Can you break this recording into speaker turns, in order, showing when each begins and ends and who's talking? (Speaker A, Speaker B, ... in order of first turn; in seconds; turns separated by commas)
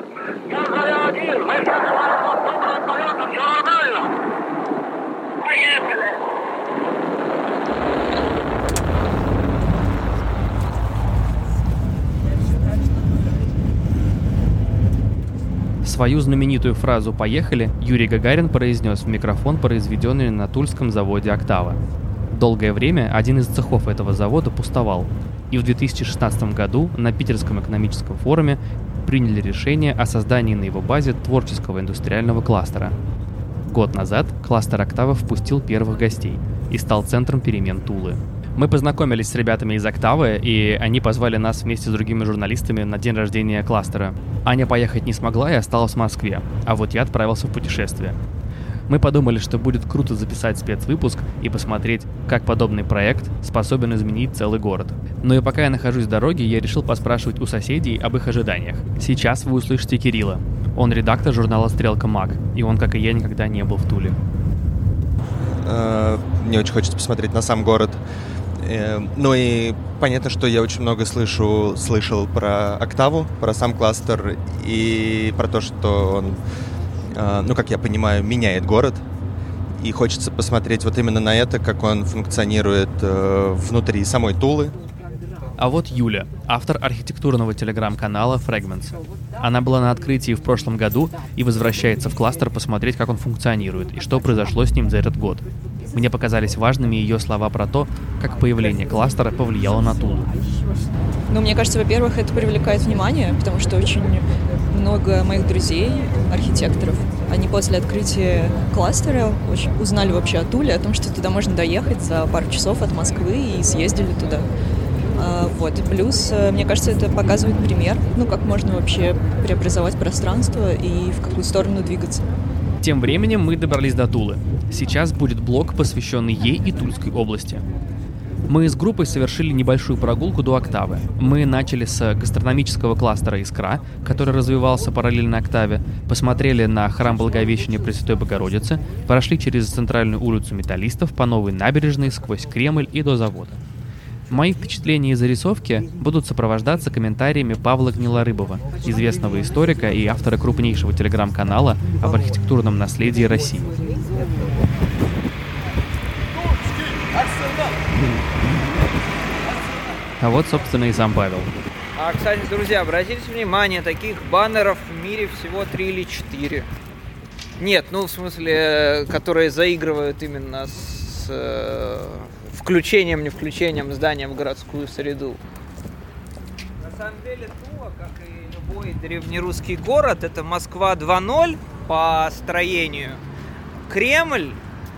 Speaker A: 0.5-4.1, Speaker A: 5.4-6.1, Speaker B: 15.8-21.8, Speaker B: 22.3-32.9, Speaker B: 33.6-48.2, Speaker B: 48.9-64.2, Speaker C: 65.6-68.0, Speaker C: 68.6-76.4, Speaker C: 77.1-79.0, Speaker C: 79.8-84.7, Speaker B: 85.6-100.3, Speaker D: 101.3-114.5, Speaker D: 115.2-122.2, Speaker B: 122.8-127.6, Speaker B: 128.5-143.6, Speaker B: 144.3-153.7, Speaker E: 157.3-157.5, Speaker B: 160.2-161.5, Speaker E: 161.9-166.7, Speaker E: 167.6-175.4, Speaker E: 176.8-183.2, Speaker E: 183.9-184.6